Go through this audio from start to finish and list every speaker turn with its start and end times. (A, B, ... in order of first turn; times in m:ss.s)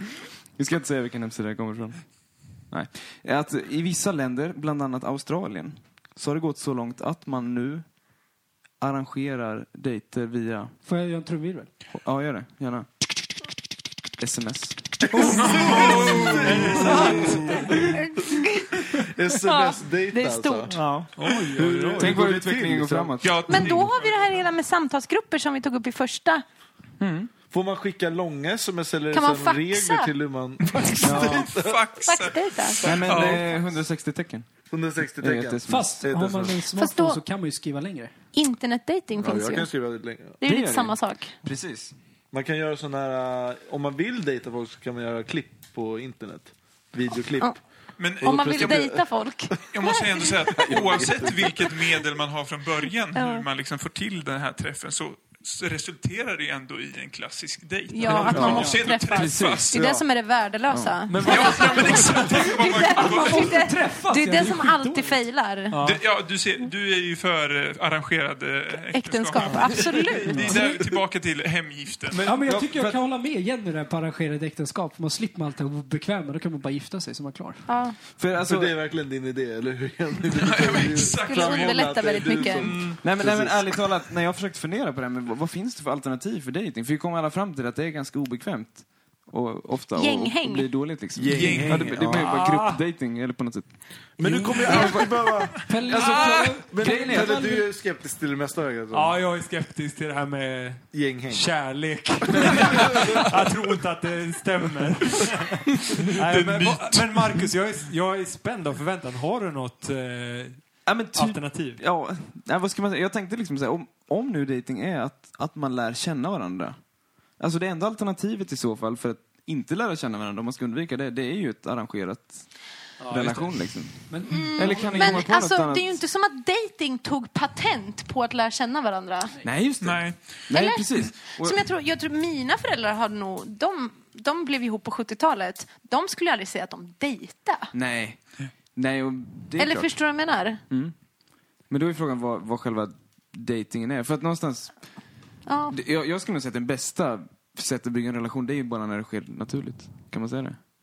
0:00.6-0:07.9 A
0:08.8-0:10.8 A
0:10.8-0:11.7 B
0:11.9-0:12.9 A
0:14.2-0:15.1 A
0:15.1-0:17.5 C
0:15.2-0:18.0 D
0:16.5-0:17.8 E
0:16.9-0:17.4 B
0:18.0-0:18.8 F
0:19.0-0:20.8 D
0:19.4-0:20.7 F
0:20.7-0:21.2 A
0:20.8-0:22.2 E
0:21.2-0:21.5 C
0:21.5-0:23.2 D
0:22.0-0:23.8 A
0:23.2-0:24.4 C
0:23.5-0:26.4 F
0:27.0-0:27.3 A
0:27.5-0:31.9 D
0:29.1-0:30.1 F
0:30.6-0:33.6 C
0:31.0-0:31.3 F
0:31.0-0:31.5 A
0:32.1-0:33.0 F
0:32.8-0:34.5 A
0:32.9-0:33.6 D
0:34.7-0:36.6 D
0:35.1-0:36.0 A
0:35.7-0:38.1 B
0:36.8-0:37.2 F
0:38.3-0:39.7 F
0:39.2-0:40.4 D
0:40.4-0:41.4 F
0:40.4-0:41.9 A
0:42.3-0:47.6 D
0:48.0-0:49.0 C
0:48.2-0:49.0 D
0:48.2-0:50.7 F
0:49.7-0:59.9 C
0:49.9-0:51.8 D
0:53.2-0:53.5 F
0:57.9-1:05.8 F
0:58.1-0:58.6 E
0:58.3-0:58.8 D
0:59.1-0:59.7 A
0:59.7-1:00.0 D
1:00.7-1:01.2 A
1:01.1-1:02.5 E
1:01.2-1:03.7 C
1:02.3-1:05.2 B
1:05.7-1:06.0 E
1:05.8-1:12.3 C
1:08.9-1:10.7 F
1:10.3-1:10.6 B
1:12.2-1:17.7 B
1:12.4-1:13.0 D
1:17.7-1:18.0 F
1:18.2-1:18.7 A
1:18.4-1:23.8 D
1:20.3-1:23.0 C
1:21.1-1:22.7 F
1:23.0-1:35.2 A
1:30.0-1:30.9 F
1:31.1-1:32.4 D
1:31.3-1:32.0 C
1:31.8-1:32.8 E
1:34.2-1:35.6 D
1:35.6-1:36.5 C
1:35.7-1:37.7 B
1:35.8-1:37.7 A
1:36.7-1:39.2 D
1:38.9-1:51.8 E
1:40.9-1:41.7 D
1:42.4-1:43.2 D
1:42.6-1:42.8 C
1:45.9-1:47.5 C
1:50.8-1:56.8 A
1:57.4-2:06.0 A
2:03.0-2:03.7 E
2:04.1-2:05.2 B
2:04.3-2:09.3 F
2:09.4-2:11.7 A
2:09.8-2:10.5 C
2:10.5-2:17.7 F
2:17.7-2:21.0 A
2:19.6-2:20.6 F
2:21.7-2:25.1 A
2:25.5-2:25.8 F
2:25.7-2:30.7 A